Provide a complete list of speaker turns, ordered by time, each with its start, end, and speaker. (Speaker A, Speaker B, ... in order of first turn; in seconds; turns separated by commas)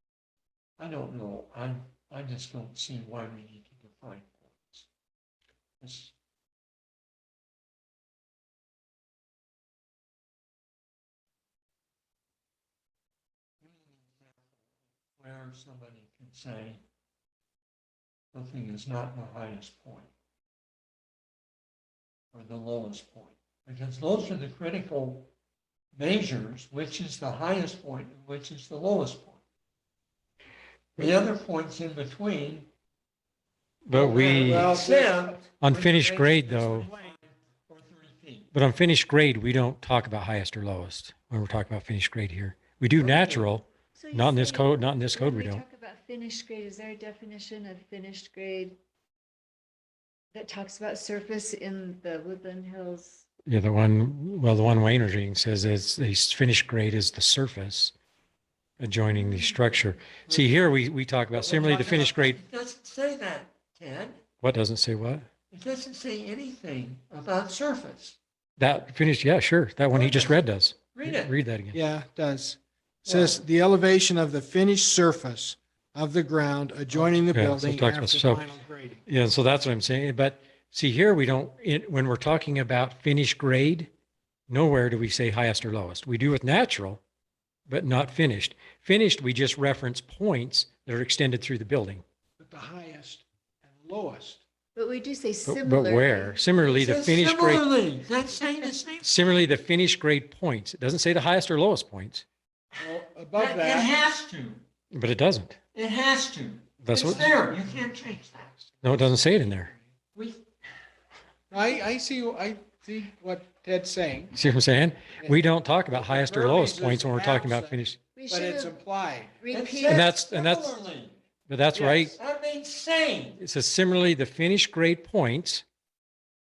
Speaker A: 0.8-4.9, Speaker A: 5.8-6.1, Speaker A: 13.6-16.8, Speaker A: 18.3-20.1, Speaker A: 22.3-25.3, Speaker A: 25.9-29.4, Speaker A: 31.0-32.7, Speaker B: 33.9-34.8, Speaker C: 33.9-35.4, Speaker A: 34.4-38.5, Speaker B: 35.6-36.9, Speaker B: 38.5-45.6, Speaker A: 43.0-43.5, Speaker D: 44.0-48.8, Speaker D: 50.3-53.2, Speaker B: 53.5-57.9, Speaker B: 58.8-62.4, Speaker A: 60.2-64.2, Speaker B: 64.4-65.3, Speaker A: 65.5-68.2, Speaker B: 68.6-71.8, Speaker A: 69.9-70.4, Speaker A: 70.9-71.3, Speaker C: 71.7-79.0, Speaker A: 73.1-73.4, Speaker B: 76.9-78.5, Speaker B: 79.1-83.9, Speaker B: 84.5-87.0, Speaker B: 87.7-92.0, Speaker C: 92.4-94.4, Speaker D: 94.8-96.4, Speaker B: 95.5-97.6, Speaker A: 96.6-99.2, Speaker B: 99.0-102.2, Speaker C: 102.8-104.0, Speaker A: 103.3-104.6, Speaker B: 104.9-105.6, Speaker A: 105.7-108.5, Speaker B: 106.8-107.4, Speaker C: 108.7-109.9, Speaker B: 108.8-109.7, Speaker A: 110.2-110.4, Speaker C: 111.5-114.4, Speaker B: 114.3-118.0, Speaker C: 115.2-119.4, Speaker D: 118.2-118.8, Speaker D: 119.4-120.1, Speaker A: 119.5-121.2, Speaker B: 119.8-120.8, Speaker B: 121.5-122.2, Speaker C: 121.7-122.1, Speaker A: 122.1-123.4, Speaker B: 123.4-125.7